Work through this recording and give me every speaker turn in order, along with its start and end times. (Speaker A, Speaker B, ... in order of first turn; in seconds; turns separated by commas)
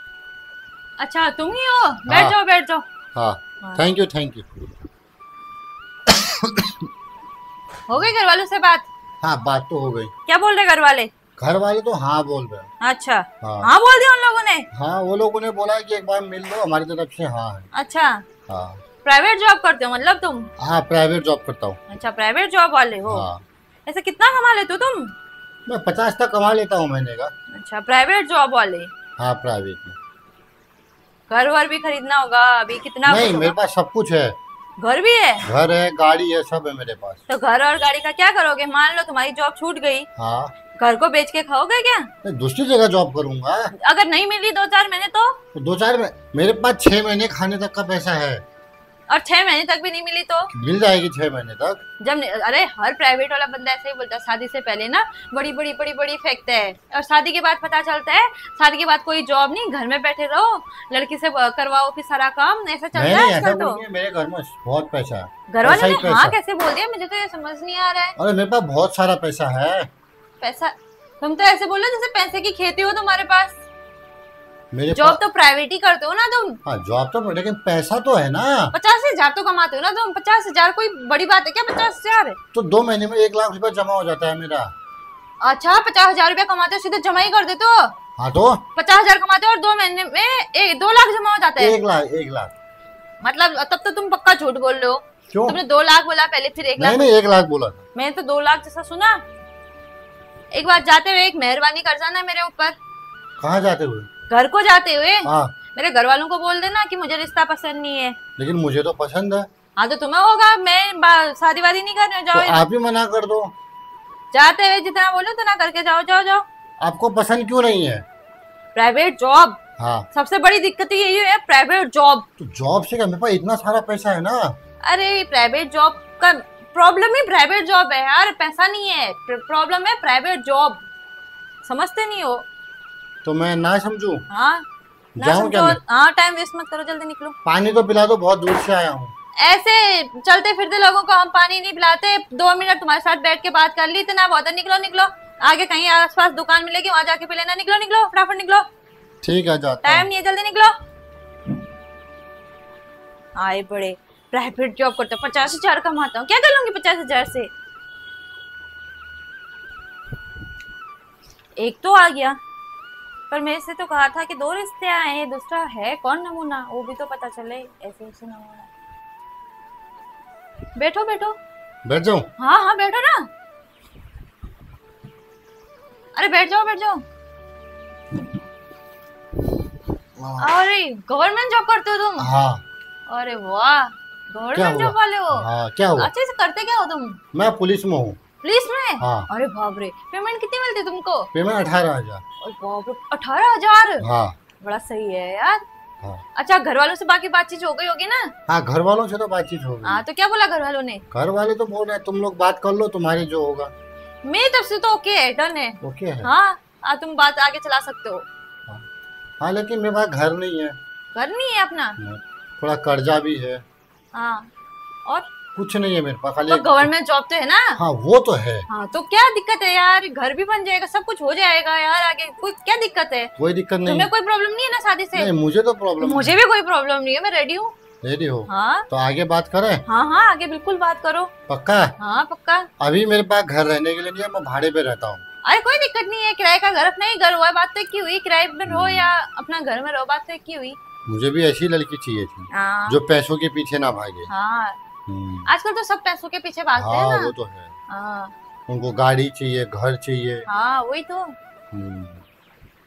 Speaker A: 1.0-2.8, Speaker B: 2.1-2.4, Speaker B: 3.1-4.7, Speaker B: 6.1-6.8, Speaker A: 7.9-8.8, Speaker B: 9.2-10.1, Speaker A: 10.3-11.1, Speaker B: 11.4-12.7, Speaker A: 12.8-14.7, Speaker B: 13.4-13.7, Speaker B: 14.7-17.7, Speaker A: 17.7-18.2, Speaker B: 18.5-18.8, Speaker A: 19.0-20.5, Speaker B: 20.6-21.8, Speaker A: 21.9-23.3, Speaker B: 23.1-23.4, Speaker A: 23.9-25.1, Speaker B: 25.7-27.3, Speaker A: 27.5-28.9, Speaker B: 29.2-30.0, Speaker A: 31.3-33.5, Speaker B: 33.0-34.4, Speaker A: 34.8-35.4, Speaker B: 35.4-37.2, Speaker A: 37.3-40.1, Speaker B: 40.1-40.5, Speaker A: 40.8-42.1, Speaker B: 42.2-43.7, Speaker A: 43.8-45.4, Speaker B: 45.5-48.4, Speaker A: 49.1-50.5, Speaker B: 50.5-51.8, Speaker A: 52.0-63.8, Speaker B: 62.9-66.4, Speaker A: 65.5-68.2, Speaker B: 68.2-69.9, Speaker A: 70.4-73.6, Speaker B: 74.7-75.2, Speaker A: 74.9-76.6, Speaker B: 76.6-78.7, Speaker A: 78.7-82.3, Speaker B: 82.5-84.7, Speaker A: 85.4-87.9, Speaker B: 88.2-88.6, Speaker A: 88.8-91.8, Speaker B: 91.6-92.5, Speaker A: 93.2-97.0, Speaker B: 95.3-95.6, Speaker B: 96.8-97.8, Speaker A: 97.9-99.2, Speaker A: 100.5-102.8, Speaker B: 103.4-104.1, Speaker A: 104.3-108.2, Speaker B: 105.2-105.5, Speaker B: 108.4-109.5, Speaker A: 109.8-112.6, Speaker B: 112.3-113.5, Speaker A: 114.3-116.4, Speaker B: 116.8-118.0, Speaker A: 118.7-119.6, Speaker B: 119.8-120.1, Speaker A: 120.1-122.2, Speaker B: 122.4-124.6, Speaker A: 124.8-130.8, Speaker A: 131.6-132.4, Speaker B: 133.2-134.2, Speaker A: 134.3-134.6, Speaker B: 135.2-135.8, Speaker A: 135.2-137.3, Speaker B: 137.4-139.1, Speaker A: 139.4-148.6, Speaker B: 149.2-150.1, Speaker A: 149.8-150.7, Speaker A: 153.3-157.5, Speaker A: 161.6-162.4, Speaker A: 163.3-168.7, Speaker A: 170.8-171.4, Speaker B: 171.8-172.3, Speaker A: 172.4-173.3, Speaker A: 176.2-177.0, Speaker B: 180.2-180.6, Speaker A: 180.4-182.3, Speaker B: 182.2-182.6, Speaker A: 183.1-187.2, Speaker B: 184.5-186.1, Speaker B: 187.3-188.2, Speaker A: 188.4-191.3, Speaker B: 189.0-189.3, Speaker B: 191.3-192.2, Speaker A: 192.4-194.0, Speaker B: 194.0-194.3, Speaker A: 194.6-195.6, Speaker A: 196.3-198.3, Speaker B: 198.5-200.0, Speaker A: 199.8-201.0, Speaker B: 201.1-203.7, Speaker A: 204.2-208.2, Speaker B: 205.8-206.3, Speaker B: 209.4-210.8, Speaker A: 211.1-212.0, Speaker B: 212.0-213.6, Speaker A: 214.1-214.5, Speaker B: 215.5-216.9, Speaker A: 216.5-217.8, Speaker B: 217.8-218.7, Speaker A: 218.7-223.3, Speaker B: 223.4-224.1, Speaker A: 223.8-225.3, Speaker B: 225.1-226.3, Speaker A: 226.0-227.7, Speaker B: 228.0-229.8, Speaker A: 228.5-228.9, Speaker A: 229.8-231.3, Speaker B: 231.5-231.9, Speaker A: 232.0-232.7, Speaker B: 232.8-235.2, Speaker A: 235.4-240.8, Speaker B: 238.7-239.1, Speaker B: 241.1-244.3, Speaker A: 242.5-243.0, Speaker A: 244.3-244.8, Speaker B: 245.1-245.5, Speaker A: 245.4-247.3, Speaker B: 246.8-247.7, Speaker A: 247.9-248.3, Speaker B: 248.7-250.4, Speaker A: 250.4-251.3, Speaker B: 251.7-252.2